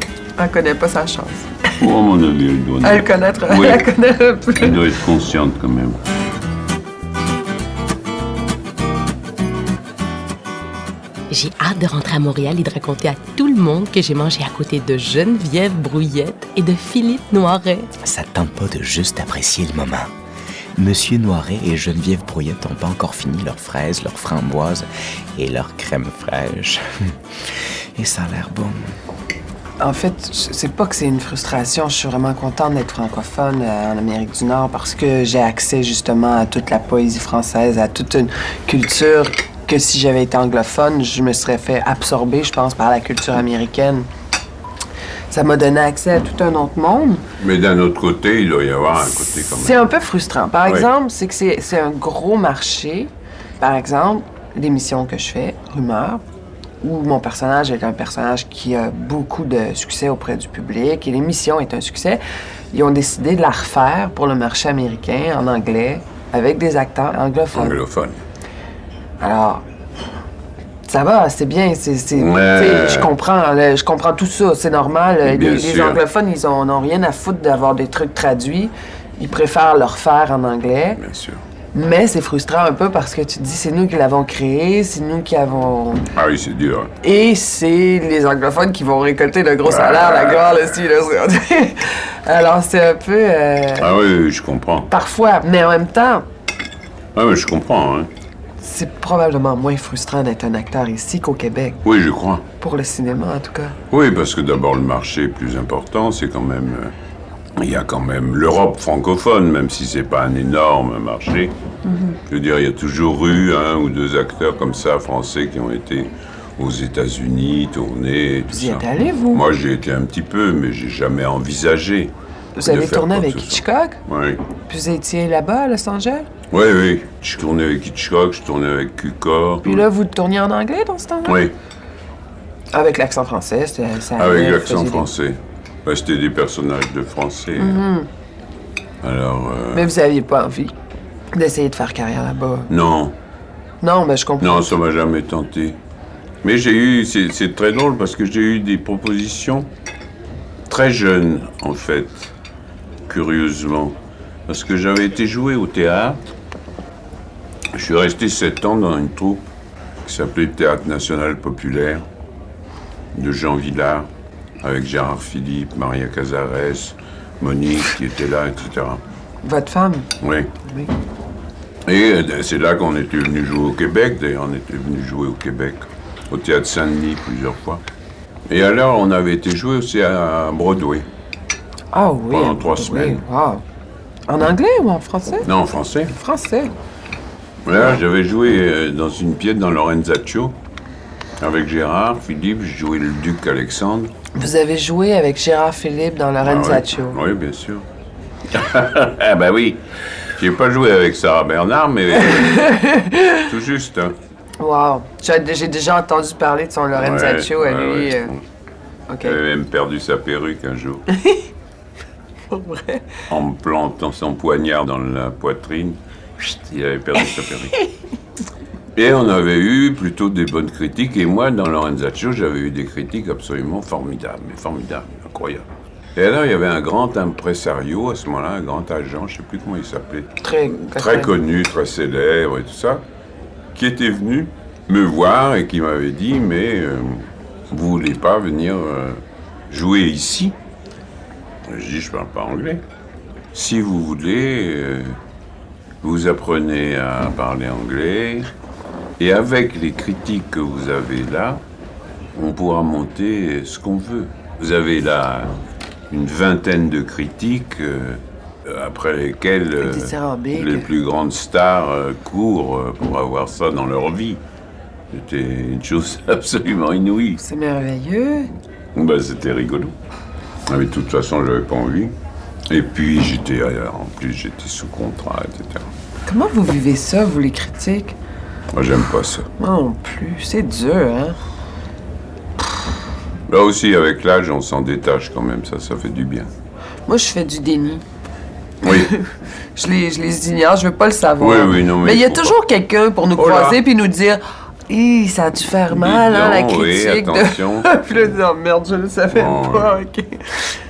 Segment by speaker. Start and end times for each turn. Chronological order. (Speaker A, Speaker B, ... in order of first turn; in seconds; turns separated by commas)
Speaker A: 0.4-1.8, Speaker B: 1.8-3.9, Speaker A: 2.8-4.8, Speaker B: 4.5-6.0, Speaker C: 11.3-17.9, Speaker D: 18.0-20.1, Speaker D: 20.8-28.8, Speaker A: 29.8-44.1, Speaker A: 45.3-47.2, Speaker B: 47.4-49.9, Speaker A: 49.4-56.2, Speaker A: 56.8-62.2, Speaker A: 62.7-67.8, Speaker B: 67.5-68.2, Speaker A: 69.2-69.6, Speaker A: 70.9-81.0, Speaker B: 72.2-73.1, Speaker B: 75.2-76.0, Speaker B: 81.0-81.4, Speaker A: 81.7-86.0, Speaker B: 86.1-86.9, Speaker A: 87.0-93.9, Speaker B: 89.6-90.7, Speaker B: 93.8-94.9, Speaker A: 94.9-96.2, Speaker B: 97.1-98.1, Speaker A: 98.6-101.8, Speaker B: 101.8-102.5, Speaker A: 102.6-103.8, Speaker B: 103.9-106.9, Speaker B: 107.6-111.5, Speaker A: 111.8-112.2, Speaker B: 112.3-122.1, Speaker A: 118.5-119.4, Speaker A: 122.5-124.0, Speaker B: 122.6-124.4, Speaker A: 124.7-126.3, Speaker B: 126.5-129.9, Speaker A: 129.6-131.4, Speaker B: 131.2-131.6, Speaker A: 132.7-135.1, Speaker B: 134.2-137.8, Speaker A: 137.6-138.1, Speaker B: 139.0-139.9, Speaker A: 139.7-140.7, Speaker A: 141.3-142.7, Speaker B: 142.7-143.1, Speaker A: 143.8-144.7, Speaker B: 144.4-145.8, Speaker B: 146.4-149.7, Speaker B: 150.7-152.3, Speaker B: 153.1-153.9, Speaker B: 154.5-156.2, Speaker B: 157.7-159.5, Speaker B: 160.1-162.1, Speaker B: 163.1-164.1, Speaker B: 164.6-169.0, Speaker A: 169.4-170.1, Speaker B: 170.2-170.5, Speaker A: 170.6-170.9, Speaker B: 171.9-177.8, Speaker B: 178.5-181.1, Speaker A: 181.9-183.6, Speaker B: 182.3-183.2, Speaker A: 184.3-185.5, Speaker B: 185.4-186.1, Speaker A: 186.1-186.7, Speaker B: 187.6-190.6, Speaker B: 191.4-194.1, Speaker A: 194.3-197.2, Speaker B: 196.4-197.8, Speaker B: 198.5-204.2, Speaker A: 202.2-203.5, Speaker A: 204.6-208.3, Speaker B: 206.9-208.4, Speaker A: 209.1-209.4, Speaker B: 209.2-211.1, Speaker A: 211.1-211.4, Speaker A: 212.5-213.2, Speaker B: 213.3-217.8, Speaker B: 218.9-233.0, Speaker A: 230.4-231.3, Speaker B: 233.7-240.6, Speaker B: 241.7-242.8, Speaker B: 243.5-245.2, Speaker B: 246.0-248.5, Speaker B: 249.2-251.6, Speaker B: 252.3-255.5, Speaker B: 256.1-264.4, Speaker A: 259.8-260.9, Speaker B: 265.1-267.4, Speaker A: 267.4-268.5, Speaker B: 268.9-269.9, Speaker B: 270.7-272.1, Speaker B: 272.7-275.9, Speaker A: 276.3-278.2, Speaker B: 278.7-279.5, Speaker A: 279.6-281.4, Speaker B: 283.5-286.5, Speaker A: 287.1-288.0, Speaker B: 288.8-289.1, Speaker A: 288.8-289.2, Speaker A: 289.8-300.7, Speaker B: 291.4-292.6, Speaker B: 293.4-293.8, Speaker B: 295.9-298.0, Speaker B: 299.3-300.0